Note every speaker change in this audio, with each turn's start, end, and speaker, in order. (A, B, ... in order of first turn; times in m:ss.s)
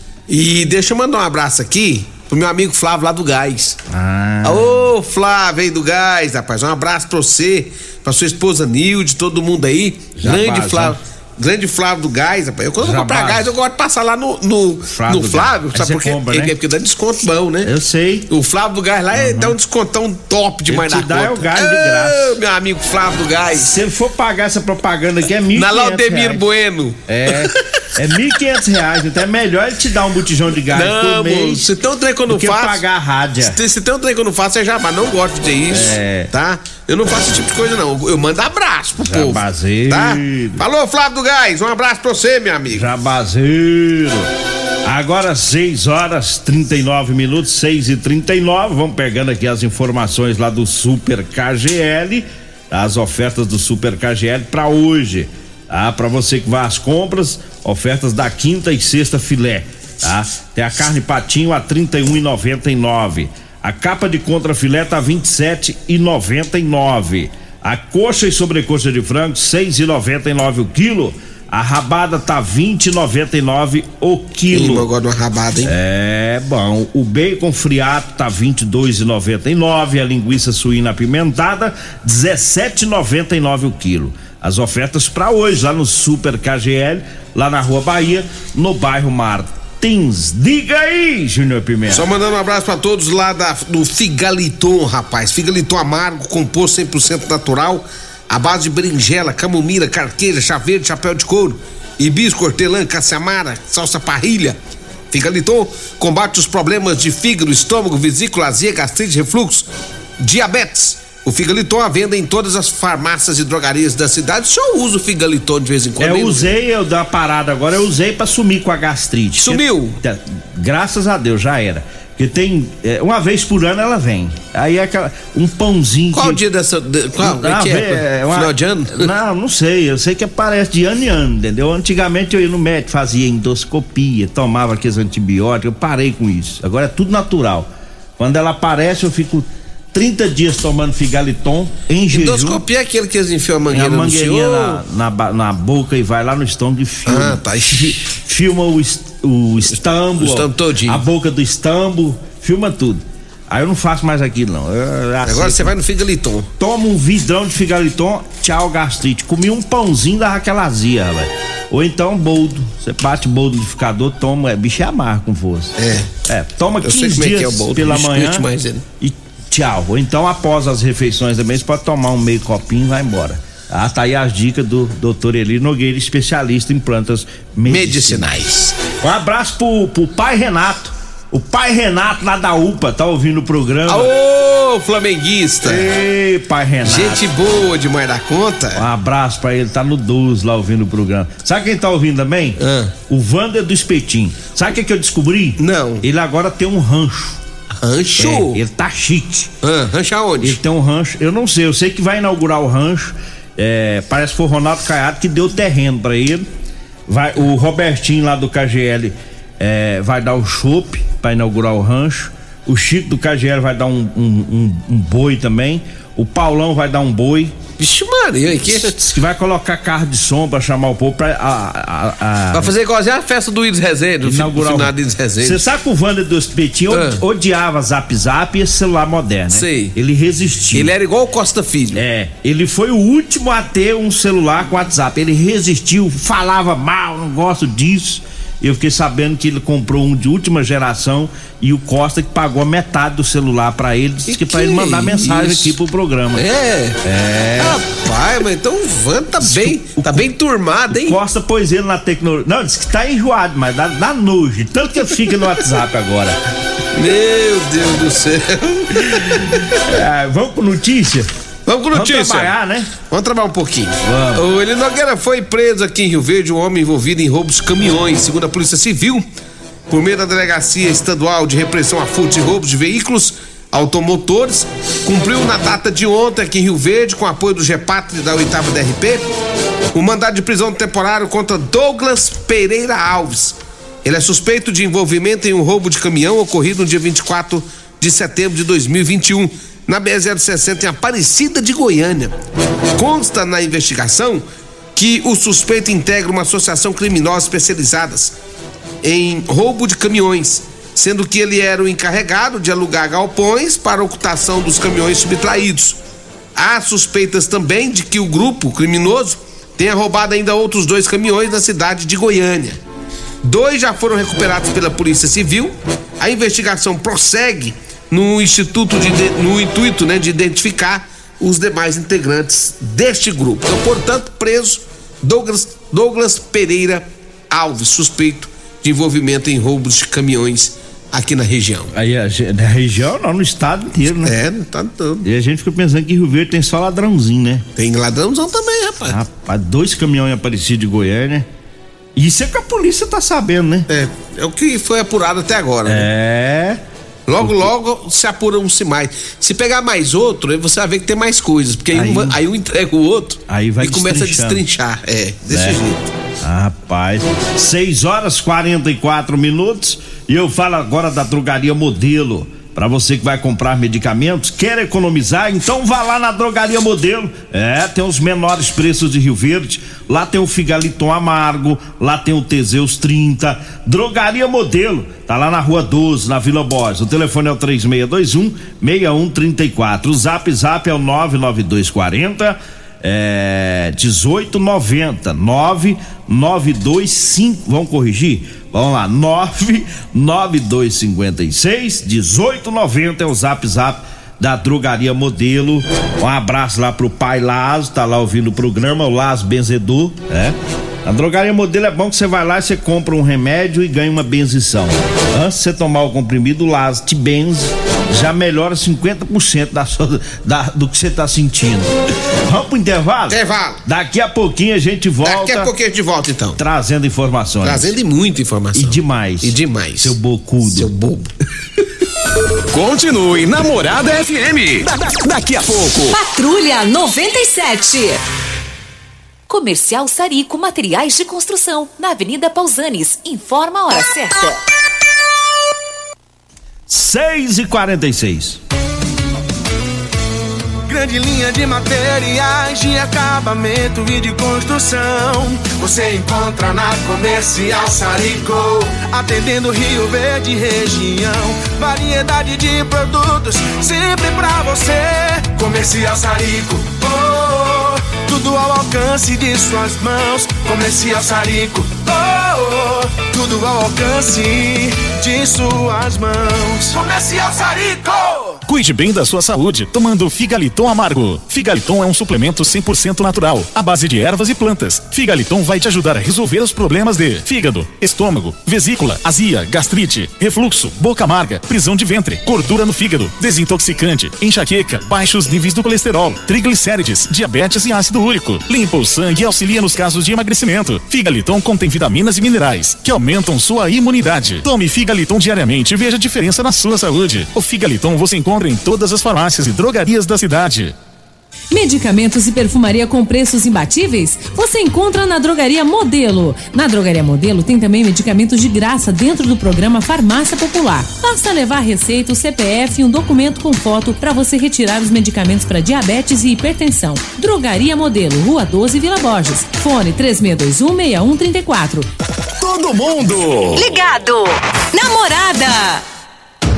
0:00.3-0:03.8 A
0:03.9-0:04.9 B
0:04.4-0:17.7 A
0:10.2-0:11.0 B
0:12.8-0:13.5 B
0:14.9-0:16.5 B
0:17.6-0:18.3 B
0:18.3-0:23.7 A
0:19.1-0:19.6 B
0:20.7-0:22.4 B
0:23.6-0:26.4 B
0:25.5-0:28.4 A
0:27.1-0:31.7 B
0:30.7-0:32.8 A
0:32.3-0:33.6 B
0:33.4-0:42.8 A
0:35.7-0:36.3 B
0:39.0-0:40.6 B
0:42.7-0:44.3 B
0:44.8-1:14.9 B
1:14.5-1:15.7 A
1:15.6-1:32.1 B
1:31.9-1:44.6 A
1:45.1-1:49.7 A
1:50.2-1:56.5 A
1:56.0-2:06.4 B
1:59.4-2:00.0 A
2:06.1-2:09.1 A
2:07.2-2:22.6 B
2:22.1-2:24.8 A
2:23.7-2:35.7 B
2:27.0-2:28.0 A
2:30.2-2:31.0 A
2:35.2-2:36.5 A
2:36.6-2:48.5 B
2:45.8-2:46.1 A
2:46.8-2:48.8 A
2:49.0-3:04.1 B
2:57.7-2:58.8 A
3:03.9-3:05.9 A
3:05.6-3:07.2 B
3:06.8-3:08.8 A
3:08.8-3:17.4 B
3:12.6-3:12.9 A
3:15.6-3:16.0 A
3:17.8-3:18.6 A
3:18.2-3:19.5 B
3:19.6-3:20.6 A
3:20.4-3:26.4 B
3:27.1-3:37.6 B
3:37.8-3:38.9 A
3:38.7-3:42.7 B
3:42.5-3:45.6 A
3:44.2-3:50.9 B
3:46.9-3:47.2 A
3:49.5-3:49.9 A
3:50.7-3:52.0 A
3:51.9-4:06.4 B
4:04.3-4:05.8 A
4:06.3-4:07.0 A
4:07.0-4:07.8 B
4:07.6-4:11.2 A
4:09.4-4:10.3 B
4:10.9-4:16.4 B
4:16.9-4:19.8 A
4:19.1-4:21.3 B
4:21.7-4:29.2 A
4:21.9-4:22.9 B
4:24.0-4:24.4 B
4:29.9-4:39.3 A
4:39.9-4:52.3 A
4:52.9-4:54.4 A
4:55.0-4:58.3 A
4:59.0-5:06.0 A
5:06.6-5:12.8 A
5:13.4-5:31.9 A
5:31.9-5:34.3 B
5:34.2-5:35.2 A
5:35.2-5:37.6 B
5:37.8-5:39.2 A
5:39.1-5:41.4 B
5:42.2-5:43.9 B
5:43.9-5:46.1 A
5:45.8-5:46.8 B
5:47.3-5:56.1 A
5:47.4-5:47.7 B
5:51.9-5:52.4 B
5:53.5-5:54.6 B
5:55.5-5:55.8 B
5:56.4-6:55.7 B
6:53.3-6:53.8 A
6:55.2-6:56.6 A
6:56.6-6:57.9 B
6:57.6-7:01.3 A
6:58.7-7:00.9 B
7:02.7-7:06.2 C
7:06.1-7:08.2 D
7:09.5-7:14.6 D
7:16.9-7:18.6 B
7:20.8-7:48.6 E
7:48.6-8:20.9 F
8:21.7-8:42.1 G
8:42.6-8:43.8 C
8:43.7-8:46.0 D